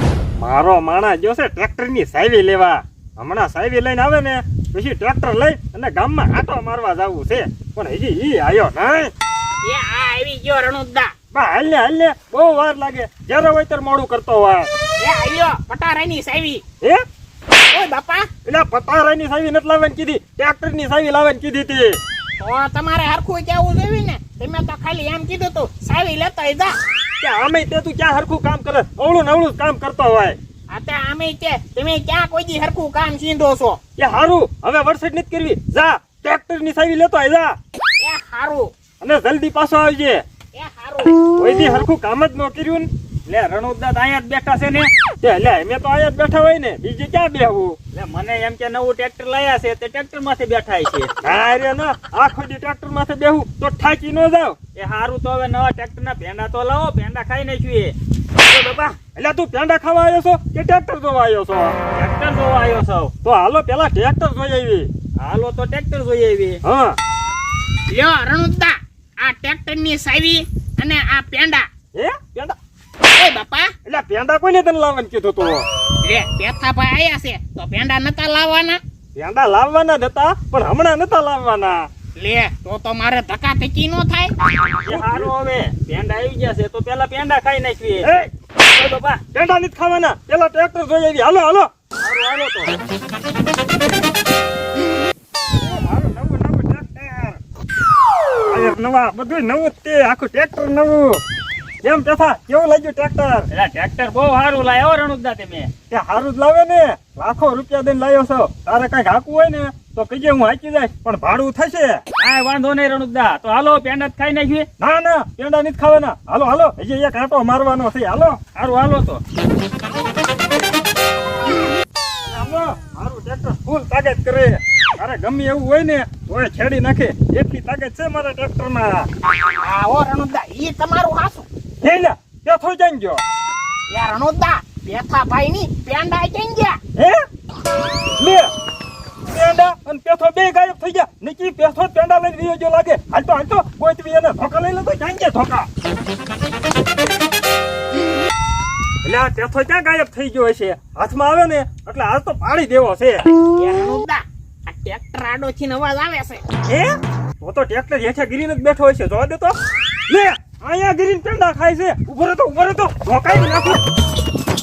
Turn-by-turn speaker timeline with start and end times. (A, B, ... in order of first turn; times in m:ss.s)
0:00.4-0:09.1 A
0:09.6-0:11.1 B
0:11.3-0:14.7 A
0:15.0-0:16.6 B
0:17.7-0:18.3 B
0:18.4-0:22.0 A
0:22.4-0:26.8 B
0:27.2-0:30.4 A
0:30.7-0:33.8 B
0:34.0-0:37.6 A
0:38.0-0:38.7 B
0:39.0-0:40.2 A
0:40.5-0:41.2 B
0:41.3-0:42.9 A
0:43.3-0:44.9 C
0:45.2-0:47.8 A
0:47.9-0:51.1 C
0:51.2-0:54.6 A
0:54.7-0:59.0 C
0:59.0-1:01.8 A
1:01.9-1:03.1 C
1:03.2-1:04.9 A
1:05.2-1:06.6 C
1:06.6-1:07.0 A
1:07.9-1:11.7 B
1:11.9-1:12.6 A
1:13.1-1:13.7 B
1:13.8-1:15.6 A
1:16.0-1:18.8 B
1:19.1-1:21.9 A
1:22.2-1:24.3 B
1:24.8-1:28.1 C
1:24.9-1:25.3 A
1:28.0-1:28.3 A
1:28.6-1:29.2 C
1:29.2-1:32.7 A
1:35.5-1:37.4 A
1:38.4-1:41.2 A
1:41.8-1:43.5 A
1:43.5-1:45.7 C
1:45.9-1:52.0 A
1:52.2-1:54.7 C
1:54.8-1:58.4 A
1:58.6-1:59.2 C
2:02.2-2:09.1 A
2:09.4-2:11.5 B
2:11.8-2:13.2 A
2:13.9-2:16.8 B
2:17.0-2:17.2 A
2:18.2-2:18.5 A
2:19.2-2:25.7 A
2:29.0-2:33.3 A
2:33.5-2:36.4 B
2:36.7-2:39.6 A
2:40.1-2:43.8 A